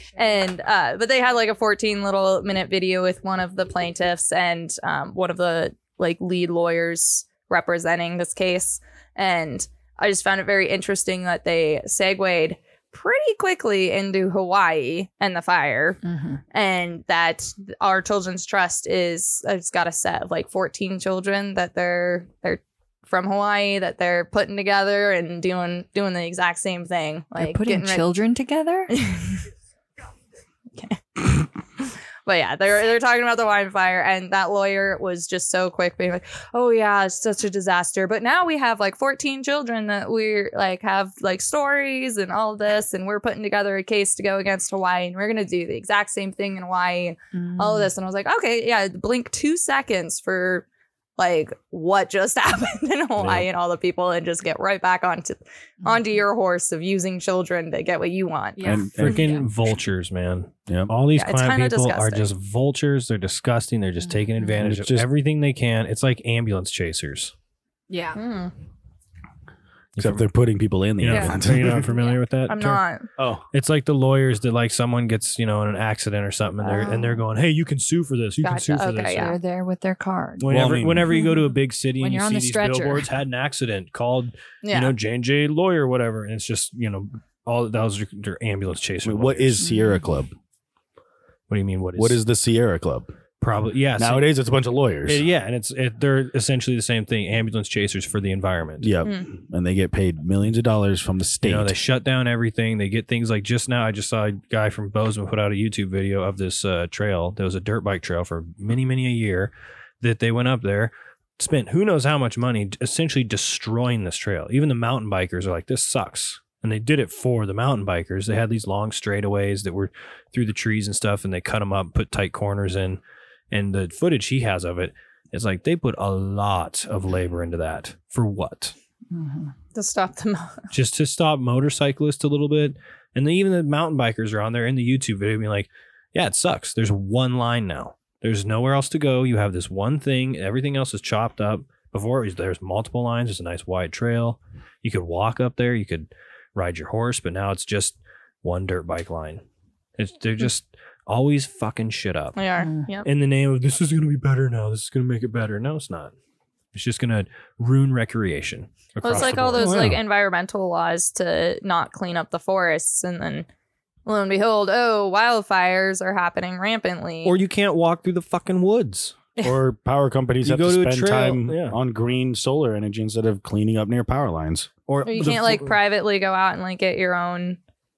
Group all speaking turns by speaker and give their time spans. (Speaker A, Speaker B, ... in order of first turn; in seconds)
Speaker A: 0.1-16.0, 16.5-28.1, 28.9-29.4, 30.8-50.6, 51.2-58.8, 61.1-62.3, 68.2-68.5, 72.5-73.1, 78.4-79.4, 84.6-84.9, 129.8-130.6, 152.4-153.1, 159.0-163.5, 164.1-167.4, 175.1-177.6
Speaker B: 16.0-16.4, 27.4-28.9, 47.3-47.9, 58.6-59.5, 67.9-68.2, 71.9-72.2, 76.6-77.2, 79.1-80.5, 81.1-83.1, 89.6-90.0, 129.1-129.5, 152.6-152.9
Speaker C: 58.6-59.3, 64.6-65.1, 70.0-71.9, 73.2-73.5, 80.4-81.1, 89.0-90.3, 92.0-93.1, 94.0-95.2, 98.8-101.8, 159.6-160.0, 169.4-174.7
Speaker D: 59.0-67.3, 70.0-70.2, 71.0-72.8, 73.5-79.4, 80.4-89.6, 91.5-92.2, 93.4-94.3, 95.1-98.9, 101.4-123.0, 123.5-128.8, 130.7-149.4, 150.0-152.4, 153.1-156.1, 156.7-160.0, 167.2-169.2, 170.4-171.8, 174.9-175.8